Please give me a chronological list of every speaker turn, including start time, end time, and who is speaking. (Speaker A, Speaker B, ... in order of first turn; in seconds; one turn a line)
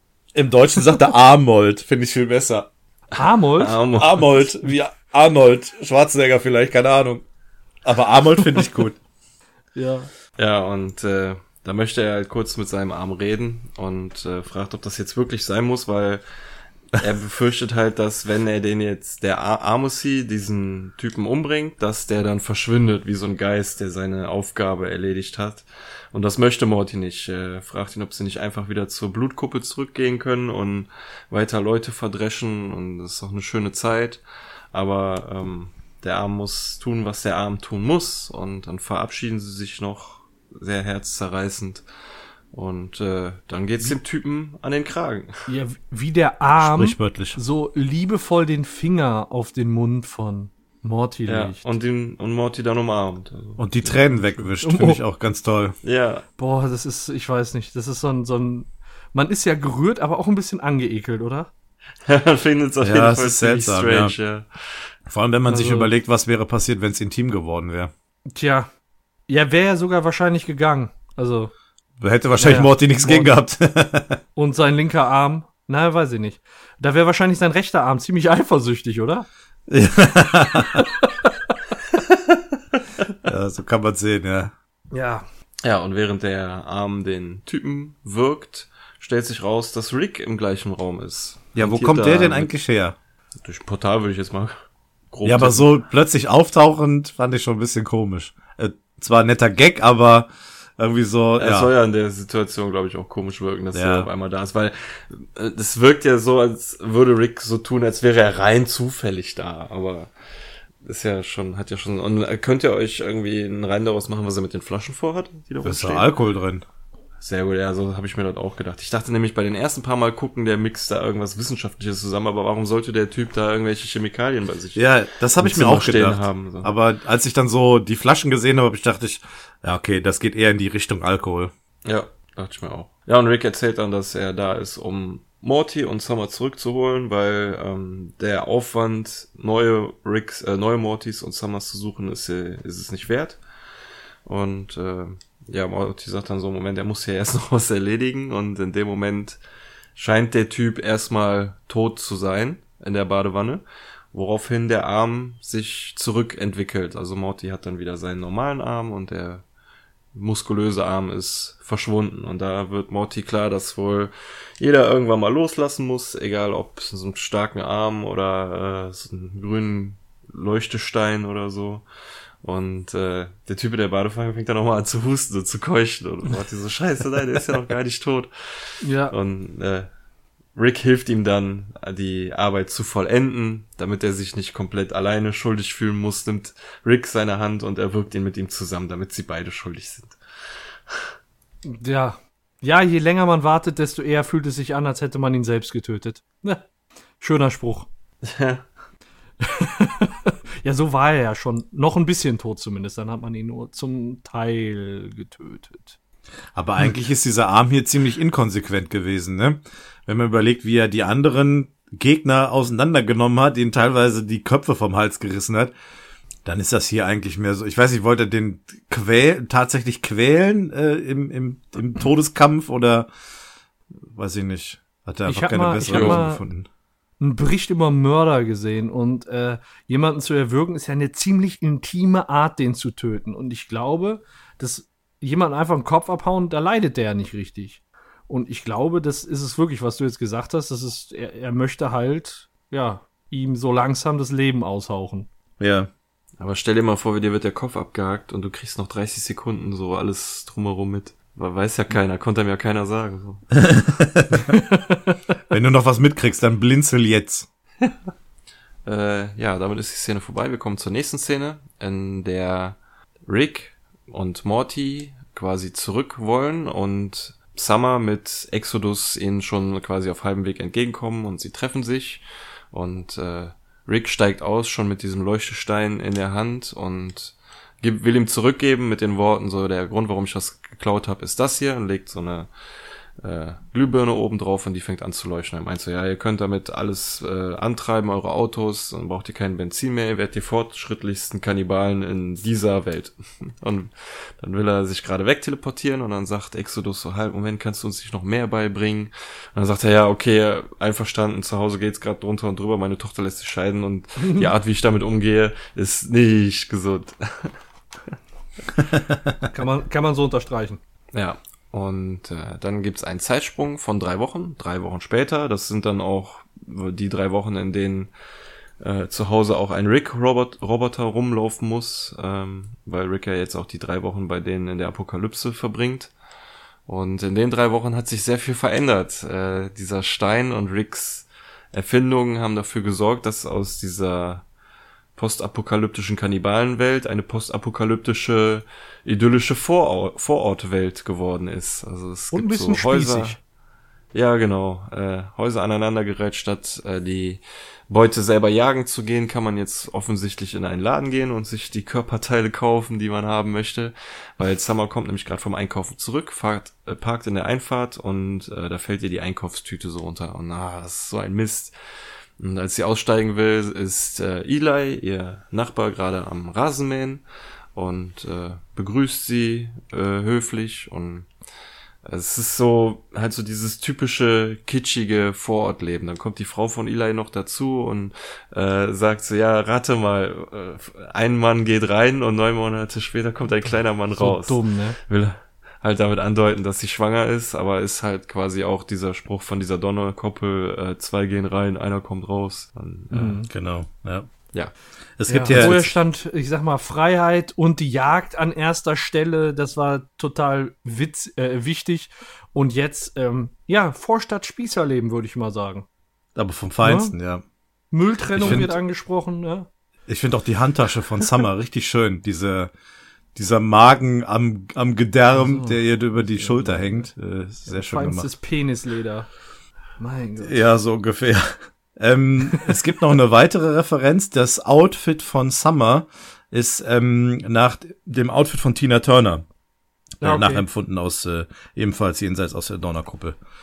Speaker A: 0.3-2.7
Speaker B: 3.2-3.8
Speaker C: 3.6-4.4
Speaker A: 4.0-7.2
Speaker A: 7.8-9.0
Speaker B: 9.8-10.1
Speaker C: 10.4-16.2
Speaker C: 16.9-34.2
Speaker C: 34.7-41.9
Speaker C: 42.5-45.5
Speaker B: 45.5-51.6
Speaker A: 46.6-47.4
Speaker C: 51.3-54.3
Speaker A: 53.6-55.8
Speaker B: 54.6-55.0
Speaker C: 55.8-56.2
Speaker B: 56.4-61.5
Speaker C: 62.1-64.9
Speaker A: 62.8-64.2
Speaker A: 65.1-67.9
Speaker B: 65.5-65.9
Speaker B: 68.3-68.7
Speaker B: 69.3-71.5
Speaker A: 72.0-74.2
Speaker B: 72.4-73.4
Speaker B: 74.4-79.3
Speaker A: 79.7-80.8
Speaker B: 80.8-81.5
Speaker A: 83.2-84.5
Speaker B: 84.9-85.2
Speaker C: 85.6-92.5
Speaker A: 91.6-93.0
Speaker C: 93.4-94.6
Speaker C: 95.1-95.7
Speaker A: 95.2-101.7
Speaker C: 101.4-110.1
Speaker A: 103.7-104.1
Speaker C: 110.8-116.1
Speaker A: 115.6-116.7
Speaker C: 117.2-126.7
Speaker A: 124.8-131.5
Speaker C: 131.8-143.4
Speaker C: 144.3-149.4
Speaker C: 150.0-159.4
Speaker C: 160.1-171.8
Speaker C: 172.4-179.9
Speaker B: 178.8-179.1
Speaker C: 180.6-190.2
Speaker B: 191.7-196.6
Speaker B: 197.2-197.9
Speaker C: 198.2-198.7
Speaker B: 199.4-206.0
Speaker A: 206.6-215.7
Speaker A: 216.4-223.1
Speaker A: 224.1-226.7
Speaker B: 225.3-226.4
Speaker C: 225.9-226.2
Speaker B: 227.2-245.3
Speaker A: 245.6-245.9
Speaker C: 246.4-253.6
Speaker A: 253.6-254.6
Speaker B: 254.5-255.2
Speaker A: 255.5-257.5
Speaker C: 258.9-282.5
Speaker C: 283.2-308.1
Speaker B: 304.2-304.5
Speaker A: 308.9-309.3
Speaker B: 309.5-310.8
Speaker C: 311.1-318.1
Speaker C: 318.8-326.1
Speaker C: 326.9-334.4
Speaker C: 335.2-343.4
Speaker B: 342.3-343.4
Speaker C: 344.1-361.8
Speaker C: 362.4-367.2
Speaker C: 367.8-371.3
Speaker C: 372.1-393.4
Speaker B: 383.6-385.0
Speaker B: 393.1-393.5
Speaker A: 393.5-394.3
Speaker A: 395.2-396.0
Speaker B: 395.3-405.9
Speaker C: 395.4-395.7
Speaker A: 406.4-407.4
Speaker B: 406.8-407.1
Speaker B: 407.9-409.7
Speaker A: 408.4-408.7
Speaker A: 410.1-412.7
Speaker A: 413.4-418.3
Speaker B: 415.3-417.1
Speaker B: 417.7-419.3
Speaker B: 420.0-420.6
Speaker A: 420.4-429.4
Speaker B: 430.2-430.6
Speaker A: 430.2-433.4